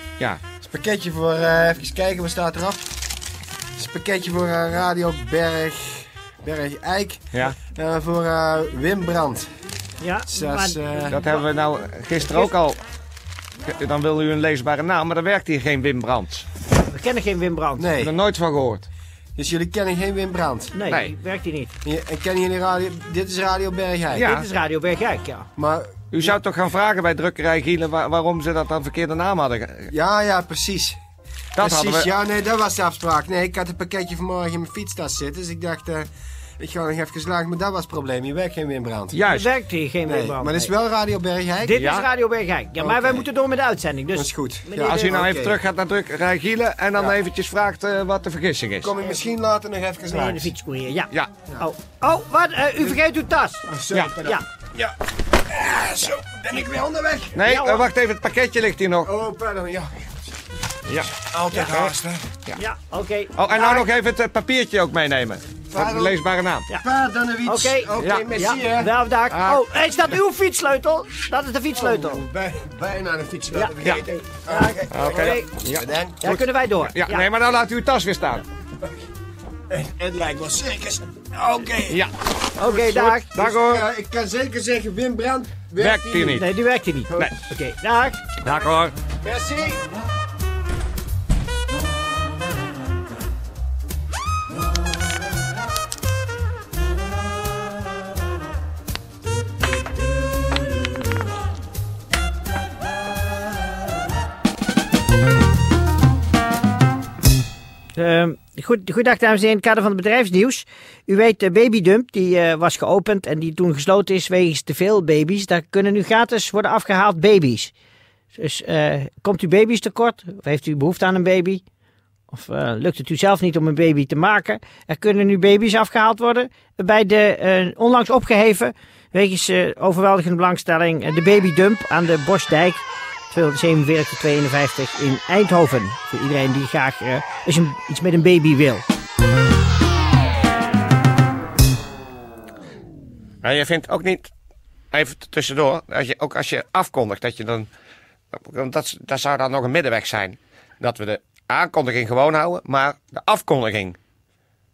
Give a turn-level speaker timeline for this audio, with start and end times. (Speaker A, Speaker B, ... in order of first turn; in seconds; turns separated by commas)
Speaker A: 0.6-2.9, Speaker A: 3.8-9.5, Speaker B: 10.0-11.4, Speaker A: 10.3-11.2, Speaker C: 11.1-12.8, Speaker C: 13.6-16.4, Speaker B: 16.8-17.9, Speaker A: 17.8-18.1, Speaker C: 18.0-18.9, Speaker A: 19.4-20.7, Speaker B: 20.7-21.7, Speaker A: 21.8-24.3, Speaker C: 24.1-24.5, Speaker B: 24.2-25.5, Speaker A: 25.6-26.3, Speaker C: 26.1-29.9, Speaker A: 29.9-31.0, Speaker C: 31.6-32.1, Speaker A: 31.6-36.1, Speaker A: 36.6-39.2, Speaker C: 39.1-39.5, Speaker B: 39.3-40.7, Speaker A: 40.0-41.8, Speaker B: 41.6-45.3, Speaker C: 41.8-42.0, Speaker A: 42.8-43.2, Speaker A: 44.1-45.6, Speaker C: 44.8-48.9, Speaker A: 48.8-50.5, Speaker B: 50.1-53.7, Speaker A: 53.6-54.9, Speaker C: 53.9-54.1, Speaker A: 55.5-57.4, Speaker C: 57.3-59.1, Speaker B: 57.4-57.9, Speaker A: 59.0-60.1, Speaker C: 60.9-62.6, Speaker A: 61.3-62.3, Speaker B: 62.5-63.9, Speaker C: 63.4-66.7, Speaker A: 65.7-66.2, Speaker A: 66.8-68.9, Speaker B: 67.4-72.2, Speaker C: 68.0-68.2, Speaker C: 69.3-69.6, Speaker A: 71.7-76.4, Speaker B: 74.5-75.5, Speaker C: 74.9-78.4, Speaker B: 76.2-77.2, Speaker A: 79.7-82.0, Speaker B: 82.6-83.3, Speaker A: 82.6-86.5, Speaker C: 83.3-83.8, Speaker C: 85.8-86.5, Speaker B: 86.3-88.2, Speaker C: 88.4-88.9, Speaker A: 89.2-89.9, Speaker B: 108.0-117.7, Speaker B: 118.3-121.6, Speaker B: 122.3-138.8, Speaker C: 143.4-144.3, Speaker C: 144.9-147.7, Speaker C: 148.3-154.0